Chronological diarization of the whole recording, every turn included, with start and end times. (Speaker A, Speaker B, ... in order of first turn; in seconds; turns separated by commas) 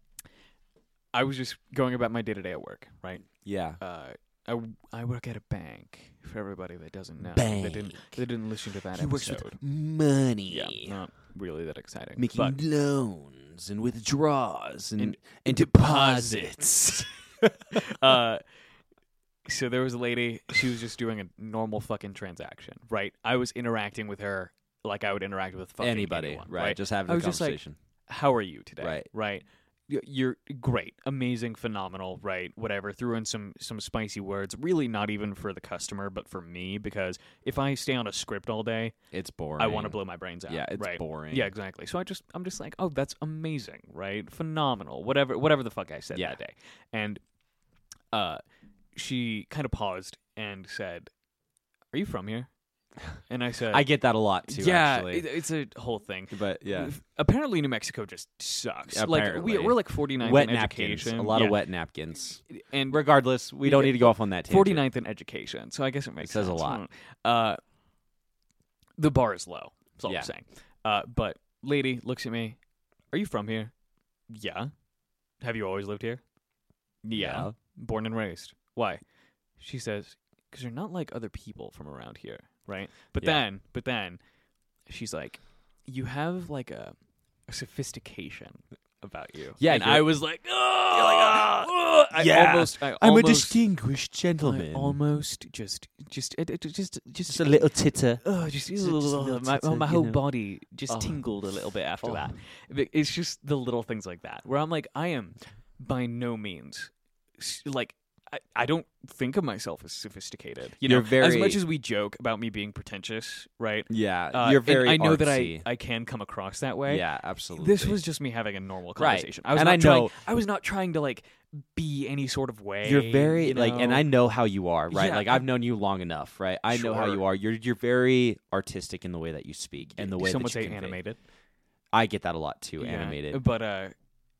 Speaker A: 1.1-3.3, Speaker B: 3.4-3.8, Speaker A: 3.8-9.6, Speaker B: 7.2-8.2, Speaker B: 8.9-11.0, Speaker A: 10.5-12.6, Speaker B: 12.2-18.2, Speaker A: 15.0-16.6, Speaker A: 17.7-18.4, Speaker A: 19.4-38.9, Speaker B: 25.8-27.8, Speaker B: 28.8-29.1, Speaker B: 39.1-41.5, Speaker A: 39.6-47.2, Speaker A: 48.1-48.4, Speaker A: 48.9-51.1, Speaker A: 51.9-52.5, Speaker A: 53.3-53.9, Speaker B: 53.7-55.2, Speaker A: 54.5-61.6, Speaker B: 56.3-56.9, Speaker B: 58.9-64.8, Speaker A: 62.5-63.0, Speaker A: 63.6-67.6, Speaker B: 66.2-66.8, Speaker A: 69.0-72.6, Speaker B: 70.0-70.3, Speaker A: 73.1-73.7, Speaker A: 74.3-74.7, Speaker A: 75.4-76.2, Speaker A: 77.0-79.0, Speaker B: 77.1-77.5, Speaker A: 79.6-84.2, Speaker A: 84.9-86.9, Speaker A: 87.5-93.6, Speaker B: 89.6-95.0, Speaker A: 94.4-97.7, Speaker B: 97.3-100.2, Speaker A: 98.2-117.0, Speaker B: 100.9-101.2, Speaker B: 102.0-102.3, Speaker B: 110.8-111.6, Speaker B: 113.9-115.7, Speaker B: 116.9-118.0, Speaker A: 117.6-124.1, Speaker B: 119.0-120.1, Speaker B: 122.8-131.0, Speaker A: 124.9-125.4, Speaker A: 126.7-127.2, Speaker A: 130.0-131.2, Speaker B: 131.9-133.4, Speaker A: 132.8-133.9